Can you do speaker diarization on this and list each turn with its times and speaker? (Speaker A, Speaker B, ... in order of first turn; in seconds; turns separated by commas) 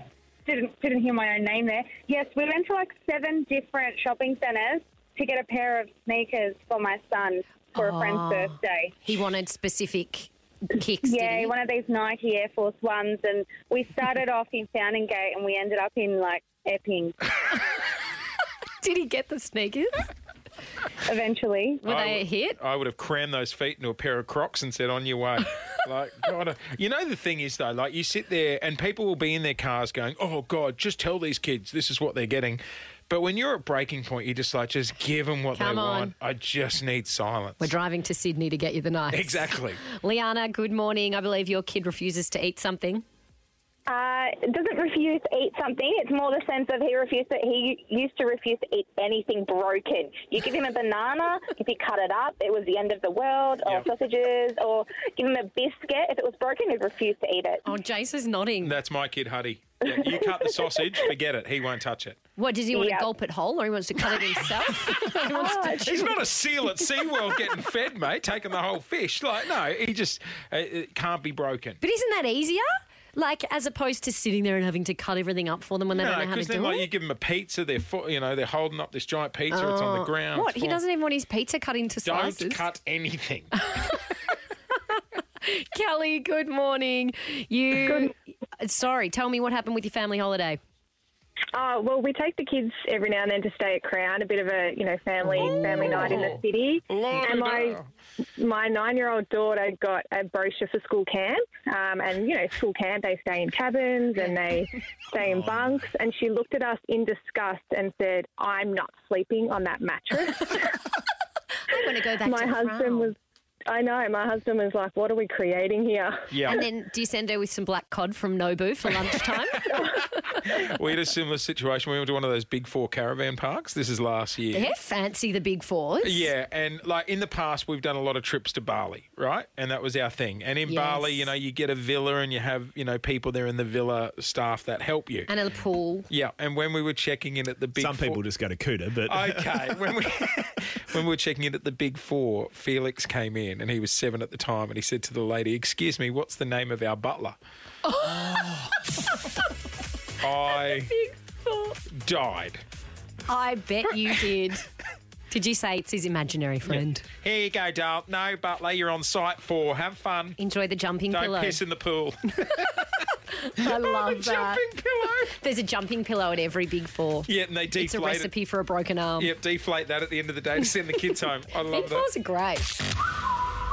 Speaker A: 0.5-8.9, Speaker B: 7.7-11.5, Speaker A: 11.0-17.2, Speaker B: 18.8-20.1, Speaker A: 21.1-21.8, Speaker B: 21.8-22.6, Speaker C: 21.8-37.7, Speaker B: 35.5-36.1, Speaker B: 37.6-43.0, Speaker C: 39.1-39.8, Speaker A: 43.9-57.6, Speaker B: 57.6-58.7, Speaker C: 58.6-62.2, Speaker B: 62.4-66.2, Speaker A: 62.7-63.1, Speaker C: 65.1-71.8, Speaker A: 65.3-66.0, Speaker B: 71.8-76.9, Speaker C: 75.9-80.8, Speaker B: 79.5-82.6, Speaker C: 82.0-83.5, Speaker B: 83.7-84.1, Speaker B: 85.4-90.6, Speaker D: 91.5-97.8, Speaker C: 95.2-97.9, Speaker D: 98.4-110.6, Speaker B: 111.7-113.1, Speaker D: 112.2-113.2, Speaker D: 113.7-116.5, Speaker C: 116.3-116.6, Speaker B: 116.5-119.9, Speaker C: 119.7-124.7, Speaker B: 124.5-126.3, Speaker C: 126.0-135.3, Speaker B: 130.6-131.3, Speaker B: 135.3-136.1, Speaker C: 136.1-138.2, Speaker E: 137.7-139.7, Speaker C: 139.0-147.4, Speaker B: 147.8-148.7, Speaker C: 150.2-150.9, Speaker B: 150.4-151.8, Speaker C: 151.9-152.6, Speaker B: 153.3-154.7, Speaker B: 155.3-157.0, Speaker C: 156.7-160.4, Speaker B: 160.4-161.6, Speaker C: 161.1-162.8, Speaker B: 163.3-164.6, Speaker C: 163.6-165.3, Speaker B: 165.3-169.3, Speaker C: 167.2-168.3, Speaker C: 169.2-172.1, Speaker B: 171.7-172.8